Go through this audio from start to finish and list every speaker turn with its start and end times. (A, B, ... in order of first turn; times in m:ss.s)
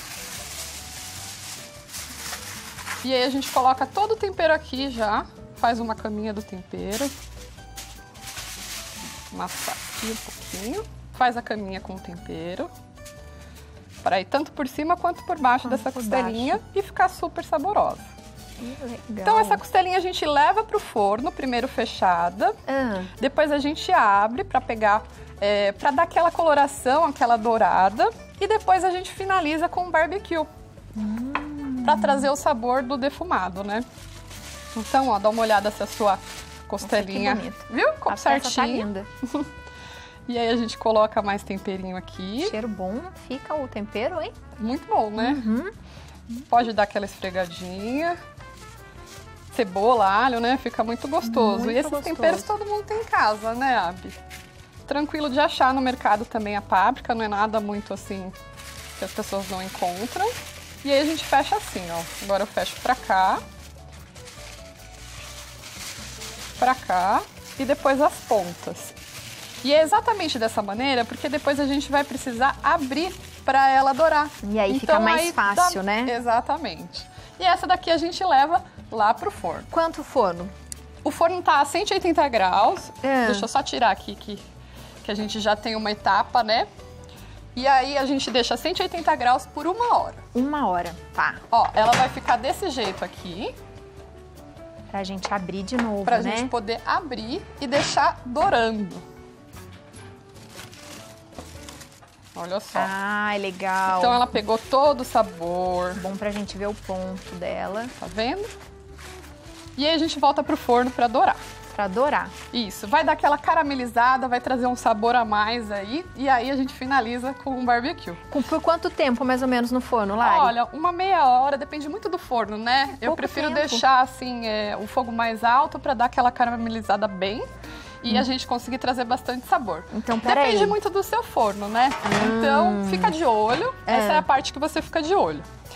0:03.0-0:07.1 A
0:09.3-0:12.7 A
0:14.0-0:18.1 A
0:15.6-0:16.6 B
0:18.6-0:19.6 B
0:19.2-0:22.5 A
0:22.7-0:23.1 B
0:23.2-0:30.5 A
0:31.0-0:32.3 B
0:31.8-0:33.8 A
0:34.8-0:39.5 A
0:36.8-0:39.1 B
0:40.3-0:42.5 A
0:42.4-0:44.3 B
0:44.6-0:45.4 A
0:45.2-0:45.7 B
0:46.5-0:48.2 A
0:49.5-0:54.2 A
0:51.2-0:52.5 B
0:54.8-0:58.4 A
0:58.9-1:03.4 A
1:06.6-1:09.0 A
1:09.6-1:19.7 A
1:14.4-1:16.1 B
1:19.7-1:20.5 B
1:21.0-1:24.4 A
1:23.0-1:23.5 B
1:25.0-1:26.7 A
1:27.6-1:30.2 A
1:30.3-1:31.4 B
1:31.5-1:33.5 A
1:34.9-1:36.5 B
1:36.0-1:39.0 A
1:42.4-1:42.9 A
1:42.7-1:44.2 B
1:43.9-1:46.0 A
1:46.0-1:47.9 B
1:48.0-1:48.5 A
1:49.8-1:51.4 A
1:51.7-1:52.3 B
1:52.5-1:58.2 A
1:58.3-2:00.5 B
2:00.2-2:07.4 A
2:03.0-2:03.8 B
2:08.0-2:15.4 A
2:09.9-2:10.8 B
2:12.0-2:13.2 B
2:13.9-2:14.2 B